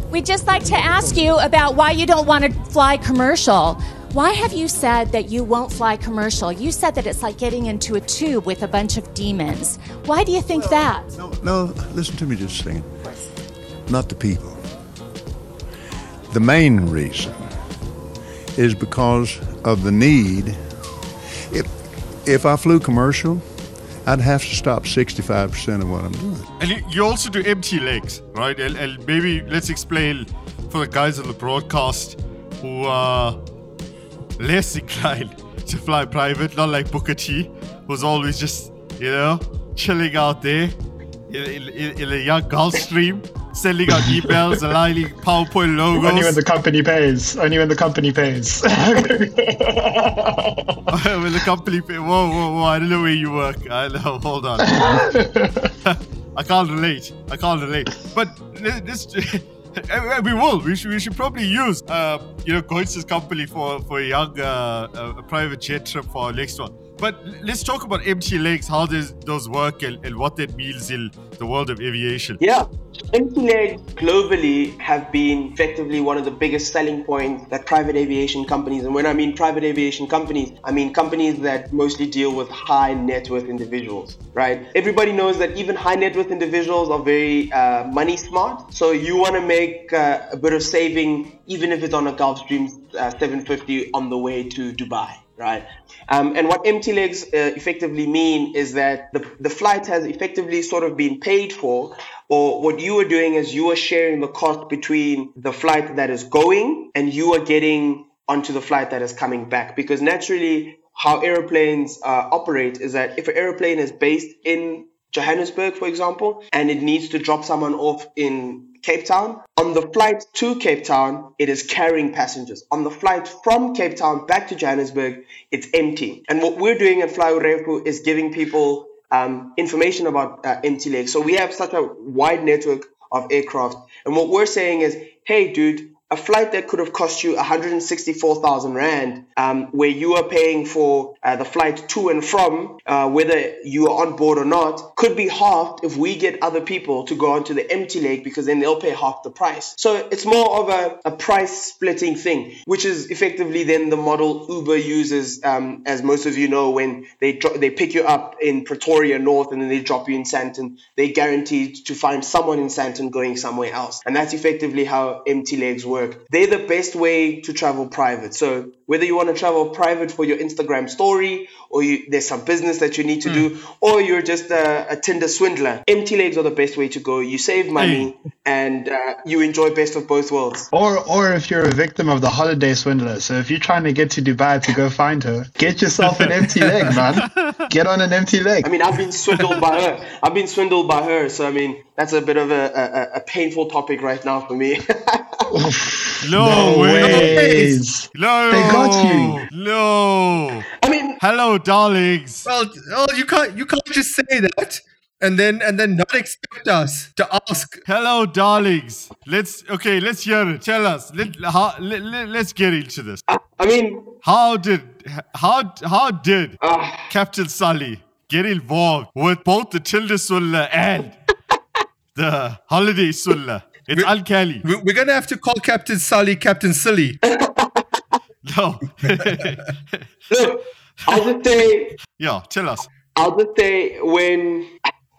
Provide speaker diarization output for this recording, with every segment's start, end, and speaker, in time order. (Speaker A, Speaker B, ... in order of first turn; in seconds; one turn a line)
Speaker A: 4.4-9.7
Speaker A: 10.2-11.0
Speaker B: 10.6-13.1
Speaker B: 13.9-14.6
Speaker B: 16.3-17.6
Speaker B: 18.6-20.7
Speaker B: 21.5-26.5
Speaker C: 26.6-33.4
Speaker C: 34.4-40.8
Speaker C: 41.3-46.4
Speaker D: 46.0-50.5
Speaker C: 50.9-55.0
Speaker D: 54.7-55.5
Speaker C: 55.9-72.4
Speaker E: 72.4-180.7
Speaker C: 177.8-178.1
Speaker D: 180.7-188.7
Speaker C: 186.0-187.6
Speaker E: 188.6-195.5
Speaker D: 195.5-199.4
Speaker C: 196.2-197.5
Speaker F: 196.5-197.8
Speaker C: 198.2-200.7
Speaker E: 200.8-201.2
Speaker C: 201.2-202.5
Speaker F: 202.5-207.8
Speaker C: 207.9-213.2
Speaker E: 213.3-214.1
Speaker C: 214.2-216.6
Speaker E: 216.6-217.1
Speaker C: 217.1-221.2
Speaker C: 222.2-224.7
Speaker F: 224.6-227.2
Speaker E: 227.2-227.8
Speaker C: 228.4-230.0
Speaker E: 230.3-232.0
Speaker C: 232.2-232.9
Speaker E: 233.2-234.7